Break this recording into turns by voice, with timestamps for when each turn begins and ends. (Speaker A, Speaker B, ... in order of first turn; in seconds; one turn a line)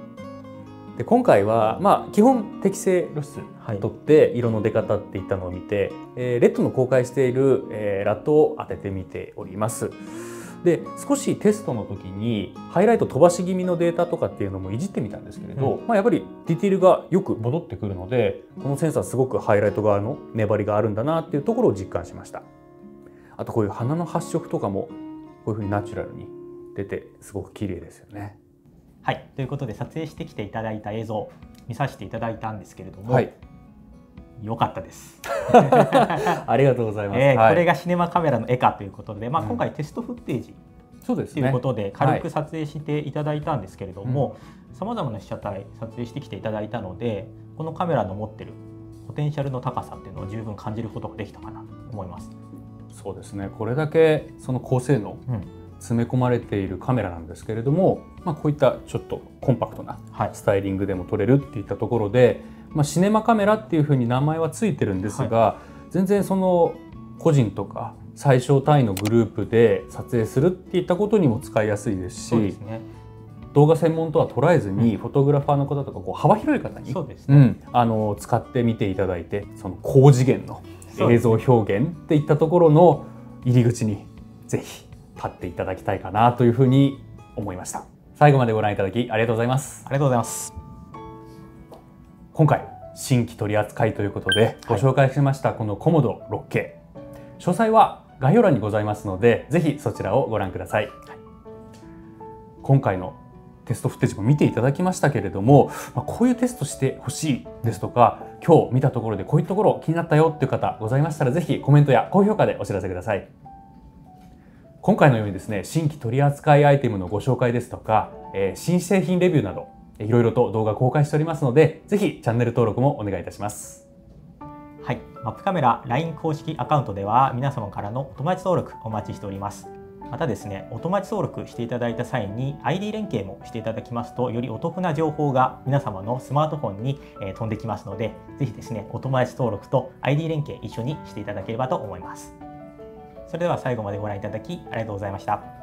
Speaker A: 0.9-22.4
Speaker B: 3.6-3.9
Speaker A: 23.4-28.4
Speaker B: 29.0-33.3
Speaker A: 33.1-33.3
Speaker B: 34.4-36.4
Speaker A: 35.4-37.6
Speaker B: 37.1-40.6
Speaker A: 41.0-42.2
Speaker B: 41.3-52.3
Speaker A: 52.9-55.2
Speaker A: 55.8-72.6
Speaker B: 72.3-72.9
Speaker A: 73.5-89.9
Speaker B: 76.8-77.5
Speaker B: 80.9-81.4
Speaker B: 89.8-90.5
Speaker A: 92.3-96.8
Speaker A: 97.4-101.0
Speaker A: 102.6-113.3
Speaker A: 114.8-123.8
Speaker B: 124.8-142.3
Speaker B: 143.3-145.5